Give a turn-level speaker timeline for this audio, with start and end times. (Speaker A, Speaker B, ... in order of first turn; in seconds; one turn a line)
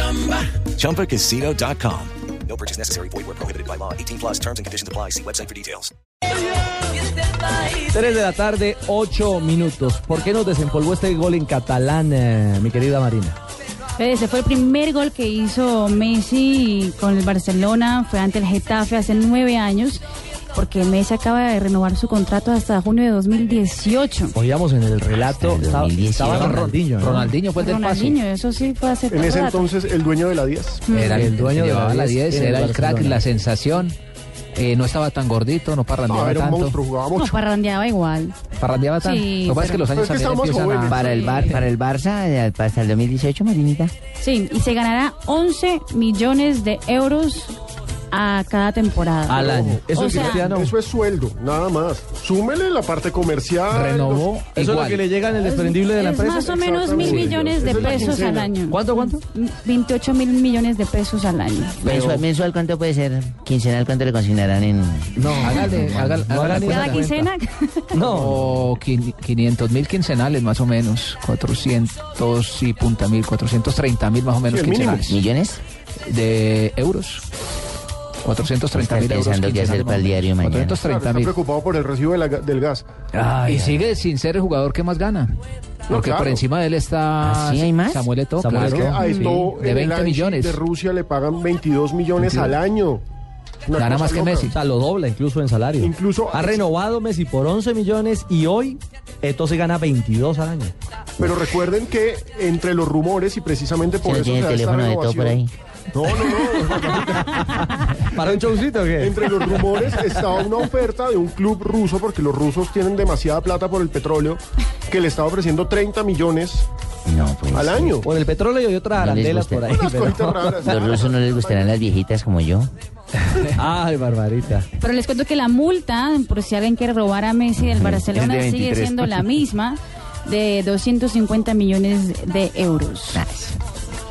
Speaker A: 1.1-5.8
Speaker B: 7.8-13.4
Speaker C: 14.0-24.3
Speaker B: 24.3-27.3
Speaker D: 25.4-26.6
Speaker E: 26.2-28.2
Speaker C: 27.5-29.6
Speaker F: 29.1-30.9
Speaker C: 30.9-31.3
Speaker E: 30.9-33.9
Speaker B: 30.9-33.2
Speaker E: 34.5-36.8
Speaker F: 36.0-37.4
Speaker C: 37.1-38.4
Speaker E: 38.6-41.4
Speaker C: 39.0-39.9
Speaker F: 39.9-41.2
Speaker D: 40.9-43.9
Speaker C: 41.0-41.6
Speaker C: 44.2-47.6
Speaker C: 48.1-50.5
Speaker B: 49.3-50.7
Speaker F: 49.4-54.3
Speaker E: 53.7-55.0
Speaker B: 54.5-59.2
Speaker C: 55.3-61.9
Speaker F: 56.5-58.5
Speaker D: 61.8-65.3
Speaker B: 61.8-62.2
Speaker B: 65.1-67.3
Speaker E: 65.4-67.1
Speaker C: 66.5-68.0
Speaker B: 67.9-68.7
Speaker E: 68.0-75.2
Speaker F: 74.5-75.1
Speaker D: 75.1-75.6
Speaker E: 76.1-77.2
Speaker E: 78.2-81.3
Speaker D: 78.7-80.8
Speaker F: 80.8-82.8
Speaker E: 83.4-85.3
Speaker F: 85.9-86.4
Speaker E: 85.9-90.6
Speaker D: 87.2-88.1
Speaker B: 88.4-88.9
Speaker F: 88.5-93.0
Speaker C: 89.0-89.4
Speaker E: 92.2-92.6
Speaker F: 93.7-94.5
Speaker E: 93.7-94.5
Speaker B: 94.5-100.7
Speaker F: 95.8-96.7
Speaker F: 101.2-116.7
Speaker D: 104.0-105.5
Speaker B: 106.3-110.4
Speaker D: 117.1-118.0
Speaker F: 117.5-118.1
Speaker B: 118.0-120.9
Speaker D: 118.9-119.7
Speaker F: 119.7-121.7
Speaker D: 120.6-122.7
Speaker B: 123.4-124.7
Speaker C: 124.8-133.2
Speaker D: 127.5-129.2
Speaker D: 133.1-133.6